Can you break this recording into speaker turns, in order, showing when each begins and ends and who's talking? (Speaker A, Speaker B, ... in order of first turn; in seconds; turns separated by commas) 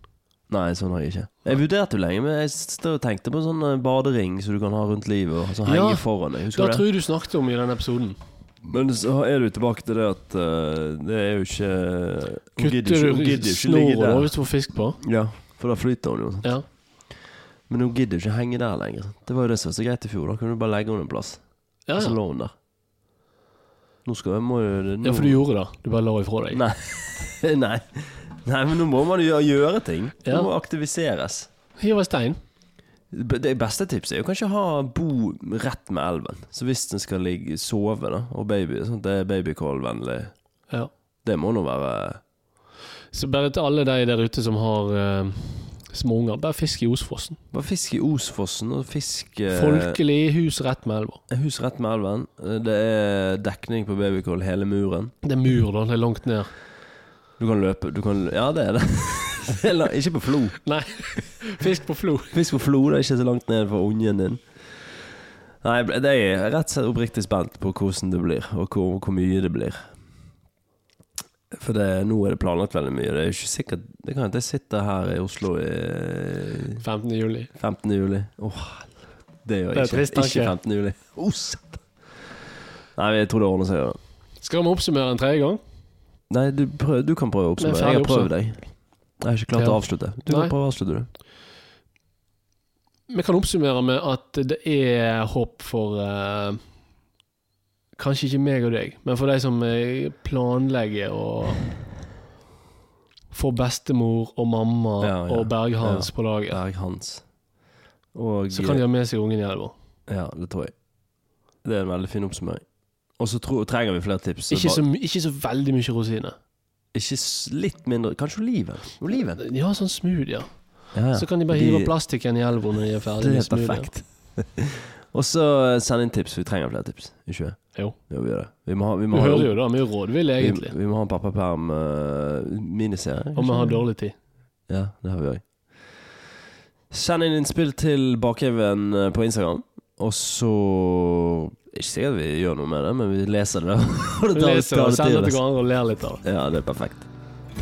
Speaker A: 0.5-6.8, Speaker B: 5.6-8.2, Speaker A: 8.7-14.3, Speaker B: 12.6-15.0, Speaker A: 15.0-16.5, Speaker A: 17.7-21.4, Speaker B: 21.9-22.2, Speaker A: 21.9-22.5, Speaker A: 24.0-25.4, Speaker B: 25.0-26.6, Speaker A: 26.5-31.5, Speaker B: 30.2-30.5, Speaker B: 31.8-32.4, Speaker A: 33.1-40.3, Speaker A: 41.2-42.2, Speaker B: 43.1-47.4, Speaker A: 47.5-50.0, Speaker B: 49.5-51.2, Speaker A: 51.3-55.1, Speaker B: 55.2-56.5, Speaker A: 57.4-60.6, Speaker B: 60.6-62.3, Speaker A: 62.3-64.4, Speaker A: 65.6-69.8, Speaker A: 71.5-76.8, Speaker B: 76.8-77.5, Speaker A: 77.5-81.8, Speaker B: 79.7-80.5, Speaker A: 83.0-84.0, Speaker B: 84.4-85.6, Speaker A: 86.3-88.6, Speaker B: 87.6-88.3, Speaker A: 89.2-91.1, Speaker B: 89.5-90.5, Speaker B: 93.1-96.6, Speaker B: 98.0-101.7, Speaker B: 103.3-106.6, Speaker A: 105.0-107.2, Speaker A: 108.1-108.8, Speaker B: 108.5-109.7, Speaker A: 110.1-110.7, Speaker A: 111.6-112.6, Speaker A: 113.2-114.8, Speaker B: 114.5-116.3, Speaker A: 116.9-119.4, Speaker B: 119.2-120.6, Speaker A: 120.9-121.9, Speaker B: 121.1-123.9, Speaker A: 123.2-129.8, Speaker B: 129.1-130.7, Speaker A: 130.4-133.8, Speaker B: 133.3-134.1, Speaker A: 134.7-136.1, Speaker A: 136.9-145.4, Speaker B: 144.3-146.2, Speaker A: 146.2-147.1